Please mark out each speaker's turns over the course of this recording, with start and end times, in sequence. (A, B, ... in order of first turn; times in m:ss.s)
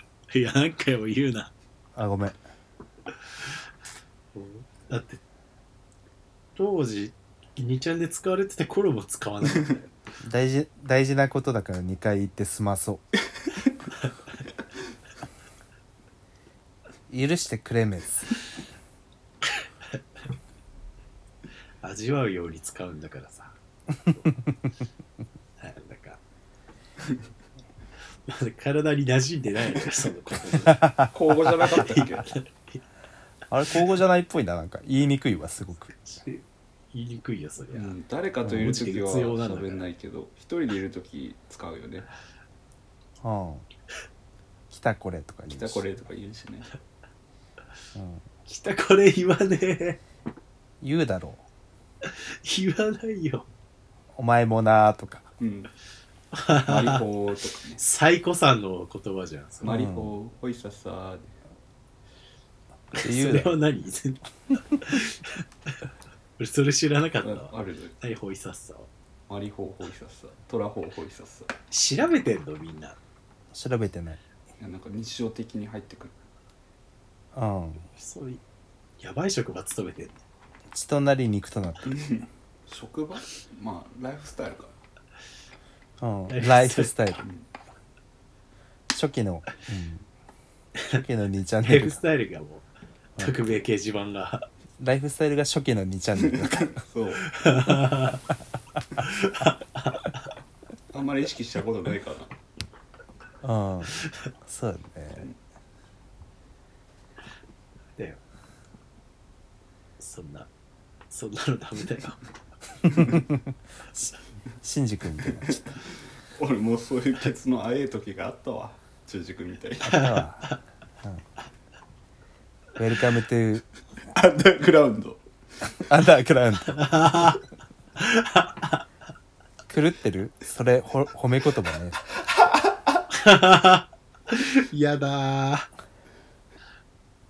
0:00.3-0:01.5 A
0:01.9-0:02.4 B
0:04.3-0:05.2 A
0:06.6-0:09.9 A
0:10.2-0:13.0 B
0:17.1-0:18.3 B
0:21.8-0:24.3 A
0:25.6-0:26.2 A
0:28.3-0:31.1 A
0:30.7-0:31.0 B
0:31.1-0:32.4 C
0:31.6-0:32.8 A
0:33.5-0:36.0 B
0:36.0-0:37.9 A
0:37.7-0:42.1 C
0:38.4-0:38.7 B
0:38.4-0:39.8 A
0:43.2-0:43.6 B
0:44.7-0:45.9 B
0:45.5-0:46.7 C
0:47.9-0:48.2 B
0:48.4-0:50.0 A
0:50.8-0:51.4 B
0:52.0-0:53.5 A
0:54.2-0:55.3 B
0:55.4-0:55.7 C
0:56.3-0:57.0 A
0:56.6-0:57.8 C
0:57.8-0:59.8 A
0:59.6-1:01.4 C
0:59.6-1:00.1 B
1:02.9-1:03.6 B
1:02.9-1:05.4 A
1:06.4-1:08.9 A
1:07.2-1:07.9 C
1:09.3-1:11.5 C
1:11.7-1:13.0 A
1:13.5-1:14.2 B
1:14.6-1:16.2 C
1:17.3-1:17.9 B
1:18.0-1:18.4 A
1:19.0-1:20.2 A
1:20.7-1:21.8 B
1:21.8-1:24.7 C
1:26.0-1:27.2 B
1:26.3-1:26.9 A
1:27.2-1:27.4 C
1:28.9-1:30.0 B
1:30.9-1:32.0 B
1:31.6-1:32.6 A
1:33.2-1:33.4 B
1:33.2-1:34.5 A
1:34.8-1:36.8 B
1:36.4-1:37.2 C
1:37.2-1:38.2 A
1:39.0-1:40.3 A
1:40.9-1:42.3 C
1:43.4-1:45.3 B
1:44.0-1:44.3 A
1:50.0-1:50.5 A
1:51.1-1:52.3 A
1:52.8-1:53.5 B
1:54.6-1:55.7 B
1:56.3-2:00.1 C
1:59.8-2:01.2 B
2:00.0-2:00.5 A
2:02.8-2:03.6 B
2:04.1-2:05.2 C
2:05.9-2:06.9 B
2:06.7-2:07.4 A
2:08.0-2:08.8 A
2:09.7-2:12.0 B
2:13.1-2:15.7 A